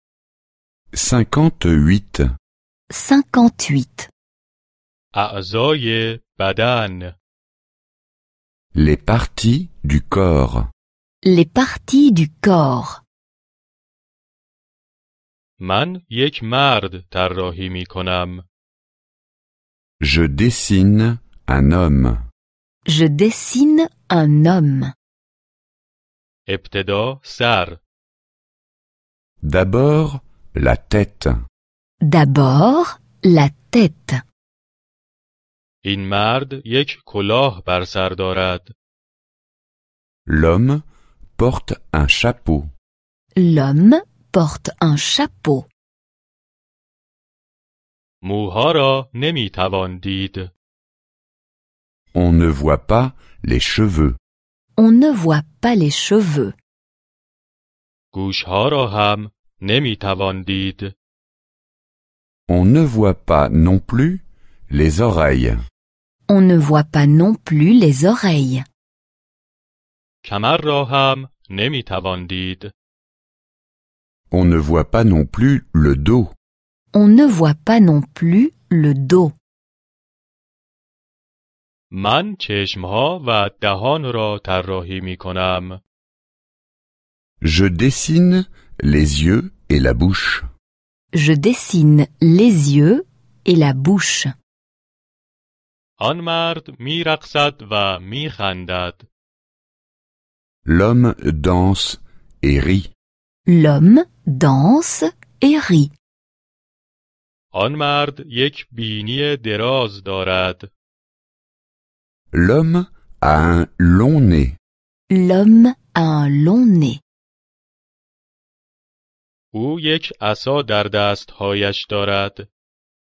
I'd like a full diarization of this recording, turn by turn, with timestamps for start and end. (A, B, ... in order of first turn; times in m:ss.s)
0:00.9-0:02.2 A
0:02.9-0:04.1 B
0:05.1-0:07.2 C
0:08.8-0:10.7 A
0:11.2-0:13.0 B
0:15.6-0:18.4 C
0:20.0-0:22.2 A
0:22.9-0:24.9 B
0:26.5-0:27.8 C
0:29.4-0:31.4 A
0:32.0-0:34.2 B
0:35.8-0:38.7 C
0:40.3-0:40.8 A
0:41.4-0:42.7 A
0:43.4-0:45.7 B
0:48.2-0:50.5 C
0:52.1-0:54.2 A
0:54.8-0:56.6 B
0:58.1-1:00.9 C
1:02.5-1:05.6 A
1:06.3-1:08.7 B
1:10.2-1:12.7 C
1:14.3-1:16.3 A
1:16.9-1:19.4 B
1:21.9-1:25.8 C
1:27.4-1:30.5 A
1:31.1-1:34.3 B
1:36.0-1:39.1 C
1:40.7-1:42.9 A
1:43.5-1:45.9 B
1:47.5-1:50.7 C
1:52.3-1:54.6 A
1:55.1-1:57.0 B
1:59.5-2:02.5 C